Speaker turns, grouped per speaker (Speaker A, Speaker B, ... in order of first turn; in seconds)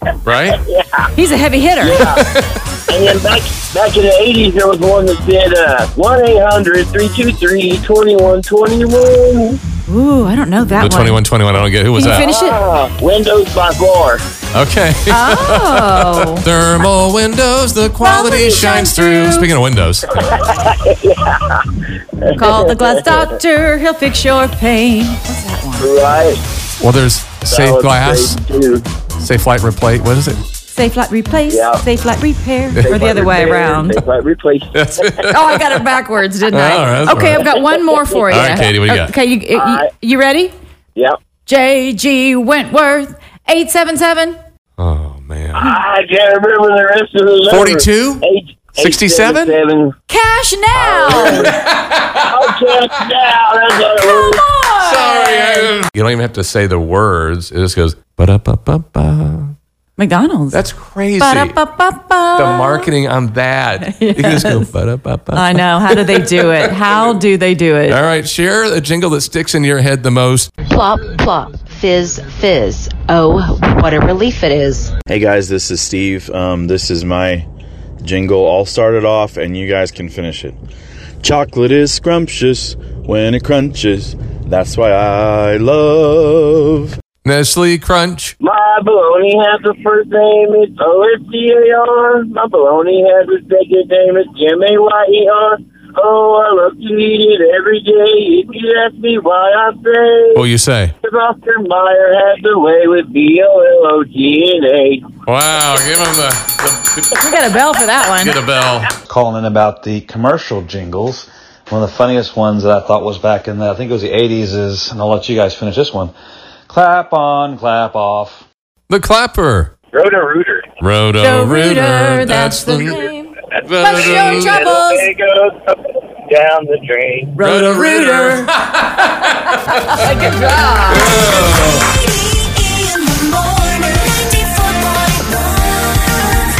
Speaker A: 0.2-0.6, 2.0-2.5, 10.8-12.3, 14.5-20.3, 26.8-28.4, 29.2-30.4, 32.7-33.1, 34.7-35.7, 36.5-37.5, 38.3-39.1, 44.8-45.6, 47.5-48.2, 48.8-49.5, 51.1-52.3, 54.8-59.5, 60.5-61.6, 62.3-67.1, 67.9-70.5, 87.2-88.3, 100.3-100.9, 105.2-107.3, 108.2-108.9, 118.9-119.7, 120.8-123.1, 123.6-124.6, 127.4-130.0, 130.9-131.9
Speaker B: 0.7-1.1, 1.8-2.2, 2.9-9.6, 12.3-14.2, 20.2-23.3, 25.8-26.4, 27.5-28.8, 31.5-31.8, 32.8-35.3, 37.3-38.7, 39.5-39.9, 45.5-49.9, 50.7-51.6, 52.3-54.5, 88.4-100.4, 101.0-105.0, 119.9-120.7, 123.5-127.3
Speaker C: 1.1-2.0, 9.9-11.2, 11.9-12.6, 15.1-16.4, 18.0-19.5, 22.3-25.9, 30.7-34.0, 35.3-40.5, 41.5-44.4, 50.1-51.5, 54.0-55.7, 60.0-60.6, 61.2-62.9, 63.8-64.7, 65.3-68.0, 107.2-108.4, 121.2-125.1, 127.3-128.5, 129.5-131.2, 132.3-135.4
Speaker D: 70.7-74.9
Speaker E: 75.1-77.5, 78.0-80.6, 81.2-87.0
Speaker F: 109.1-116.1, 116.7-118.4